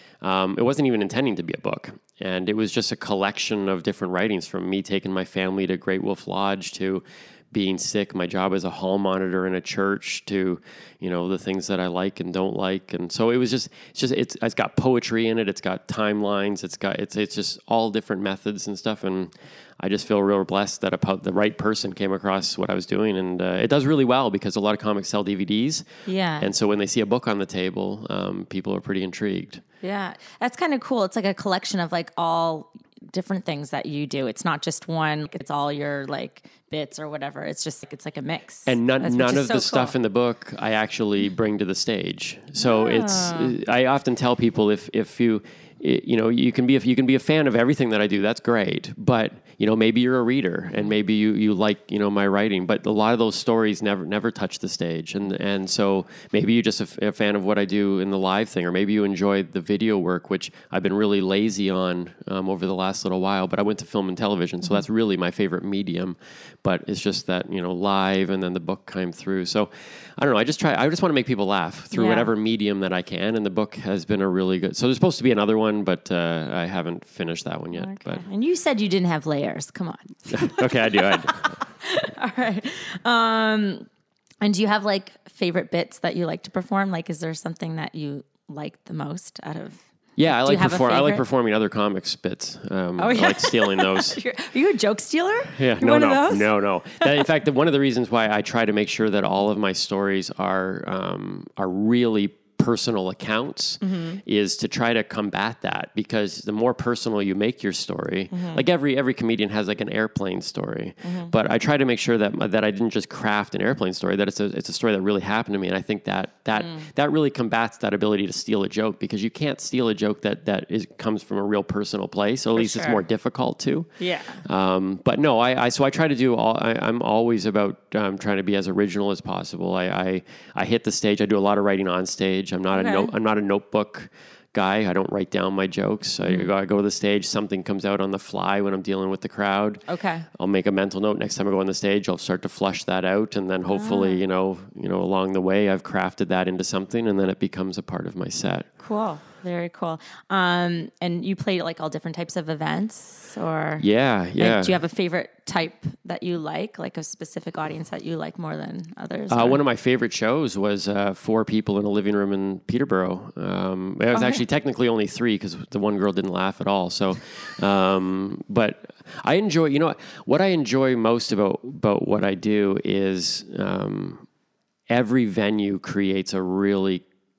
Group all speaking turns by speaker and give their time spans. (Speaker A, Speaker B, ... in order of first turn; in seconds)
Speaker A: 0.2-25.9, 26.4-29.6, 38.7-78.2, 80.3-81.5, 90.2-94.2, 95.5-123.9, 124.4-139.8, 140.3-148.7, 153.8-154.8, 159.3-174.2, 174.9-177.0
Speaker B: 26.1-26.5, 29.8-40.0, 42.6-43.6, 71.9-72.3, 77.7-83.9, 84.4-91.2, 93.0-97.2, 103.8-104.2, 108.3-108.6, 111.0-111.3, 116.5-116.9, 122.5-123.0, 124.0-124.4, 132.7-133.1, 136.2-136.5, 139.9-140.3, 143.7-144.2, 148.8-159.6, 164.1-164.4